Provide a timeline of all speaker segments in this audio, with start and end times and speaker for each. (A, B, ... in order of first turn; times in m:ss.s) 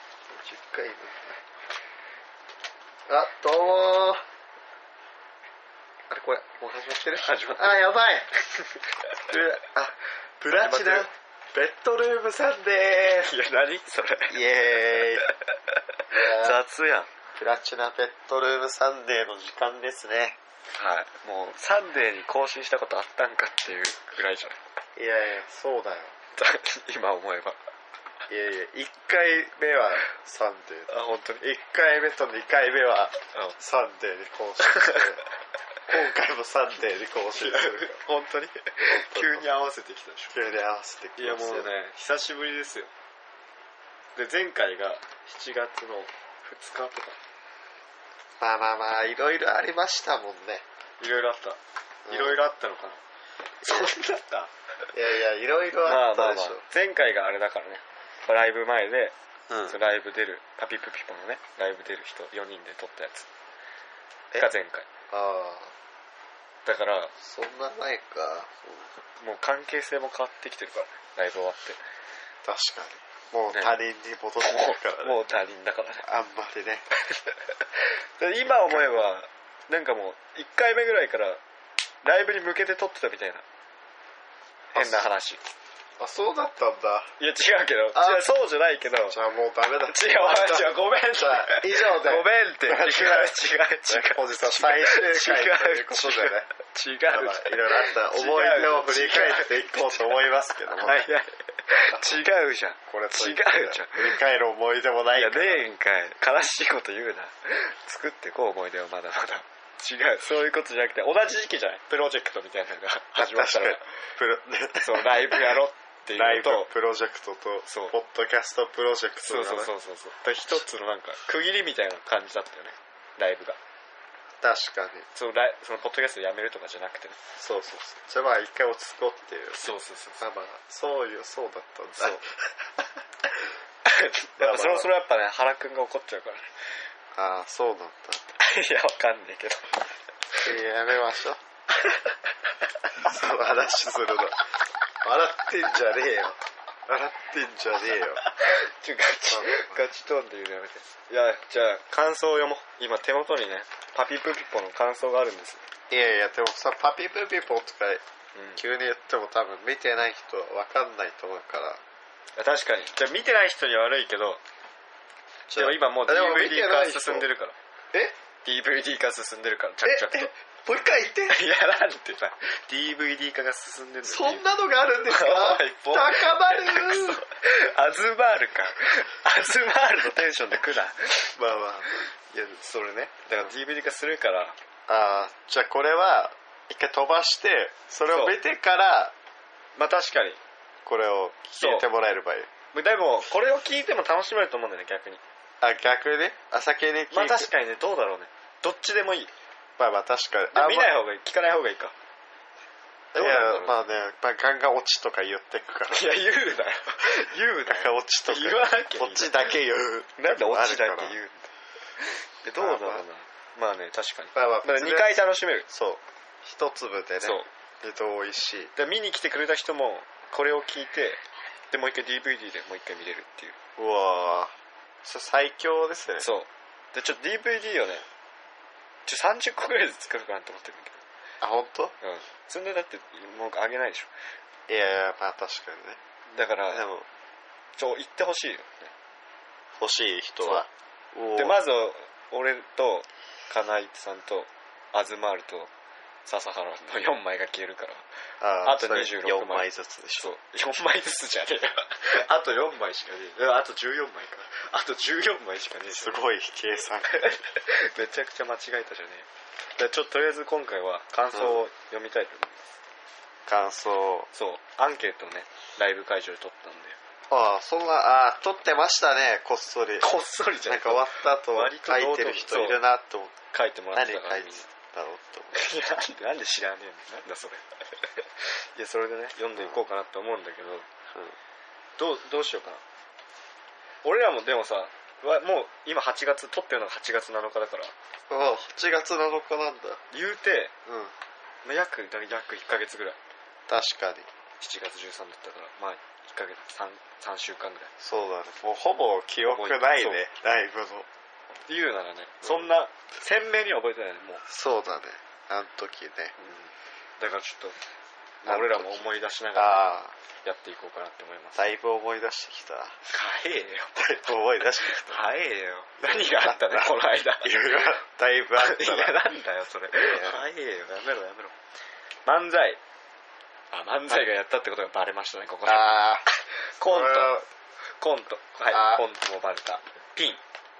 0:00.3-0:01.2 A
0:03.1-0:04.2 A
0:06.1-0:08.3 A
0:07.1-0:07.9 B
0:09.2-0:13.3 A
0:10.5-0:11.1 B
0:13.2-0:17.1 B
0:14.3-0:15.3 A
0:16.1-0:16.6 A
0:17.3-0:20.4 A
0:20.8-0:24.6 B
0:25.0-0:26.1 A
0:26.4-0:27.6 B
0:28.3-0:30.9 A
0:30.9-0:31.5 B
0:31.4-0:35.2 A
0:34.6-0:35.0 B
0:35.9-0:38.0 A
0:37.4-0:40.3 B
0:38.9-0:39.4 A
0:40.3-0:41.7 A
0:41.2-0:42.9 B
0:44.1-0:47.2 B
0:48.4-0:50.6 A
0:51.0-0:53.0 B
0:52.0-0:52.4 A
0:53.6-0:54.5 B
0:54.9-0:56.6 A
0:55.8-0:59.1 B
0:59.5-0:59.8 A
0:59.7-1:03.3 B
1:04.4-1:04.9 B
1:05.1-1:05.7 A
1:06.6-1:07.1 B
1:07.2-1:08.9 A
1:09.2-1:11.8 B
1:12.4-1:15.2 A
1:13.5-1:13.8 B
1:14.4-1:16.1 B
1:16.0-1:16.8 A
1:17.1-1:21.4 B
1:18.4-1:19.1 A
1:22.0-1:23.4 B
1:24.7-1:25.1 A
1:24.7-1:25.4 B
1:26.0-1:27.1 A
1:27.2-1:29.2 B
1:27.9-1:28.2 A
1:29.1-1:36.5 A
1:29.9-1:40.1 B
1:37.1-1:41.1 A
1:40.8-1:44.2 B
1:41.9-1:42.2 A
1:42.9-1:45.6 A
1:45.2-1:53.8 B
1:53.2-1:55.5 A
1:54.8-1:56.7 B
1:56.2-1:59.7 A
1:57.7-1:57.9 B
1:59.2-2:03.6 B
2:04.4-2:05.1 A
2:05.1-2:07.2 B
2:07.4-2:09.7 A
2:09.6-2:10.2 B
2:10.2-2:12.3 A
2:13.8-2:16.4 B
2:14.4-2:14.9 A
2:17.1-2:18.2 A
2:18.4-2:19.8 B
2:20.4-2:21.4 A
2:21.7-2:22.2 B
2:23.0-2:24.4 A
2:25.0-2:28.2 A
2:28.2-2:35.6 B
2:29.3-2:29.8 A
2:35.9-2:38.0 A
2:38.3-2:38.6 B
2:38.6-2:41.8 A
2:42.4-2:44.4 B
2:45.5-2:47.3 A
2:45.5-2:47.5 B
2:48.4-2:50.3 B
2:49.8-2:51.4 A
2:51.3-2:54.4 B
2:54.0-2:57.2 A
2:55.1-3:01.3 B
3:01.4-3:02.0 A
3:02.3-3:04.6 B
3:04.9-3:09.1 A
3:08.1-3:08.4 B
3:09.8-3:10.4 B
3:10.8-3:12.5 A
3:11.5-3:11.9 B
3:12.7-3:15.2 B
3:15.6-3:17.5 A
3:17.1-3:19.3 B
3:19.8-3:20.9 A
3:20.5-3:21.9 B
3:23.1-3:26.1 A
3:23.1-3:23.8 B
3:25.9-3:29.3 B
3:27.6-3:31.1 A
3:30.2-3:31.5 B
3:32.0-3:35.7 B
3:32.6-3:33.0 A
3:34.3-3:38.7 A
3:37.2-3:37.5 B
3:38.7-3:43.6 B
3:43.8-3:44.5 A
3:45.0-3:46.3 A
3:46.2-3:48.0 B
3:49.1-3:51.0 B
3:51.4-3:51.9 A
3:52.0-3:54.1 B
3:54.7-3:56.0 A
3:56.3-3:56.9 B
3:56.7-3:57.1 A
3:57.8-3:58.9 B
3:59.8-4:01.6 A
4:01.3-4:05.7 B
4:06.2-4:08.0 B
4:08.4-4:10.3 A
4:08.6-4:16.2 B
4:15.9-4:17.1 A
4:17.1-4:22.6 B
4:21.3-4:21.6 A
4:23.5-4:24.3 A
4:24.3-4:27.0 B
4:27.3-4:30.1 A
4:30.0-4:32.8 B
4:30.6-4:33.3 A
4:33.5-4:34.7 B
4:33.9-4:35.6 A
4:35.5-4:37.6 B
4:38.2-4:40.9 B
4:42.0-4:42.8 B
4:44.0-4:47.9 B
4:48.3-4:50.0 A
4:50.1-4:50.7 B
4:50.8-4:51.1 A
4:51.6-4:53.2 B
4:53.7-4:54.3 A
4:54.6-4:57.9 B
4:58.0-5:01.1 A
4:59.4-5:00.2 B
5:01.7-5:04.4 B
5:04.5-5:06.4 A
5:06.4-5:07.8 B
5:08.4-5:09.9 B
5:08.4-5:10.1 A
5:10.4-5:11.6 B
5:11.5-5:13.0 A
5:13.1-5:14.0 B
5:14.0-5:15.2 A
5:14.8-5:17.5 B
5:16.0-5:19.2 A
5:18.6-5:21.5 B
5:19.9-5:20.4 A
5:22.2-5:22.8 B
5:23.7-5:26.0 B
5:25.6-5:26.2 A
5:26.8-5:27.3 B
5:26.9-5:27.4 A
5:28.0-5:30.4 B
5:28.7-5:29.0 A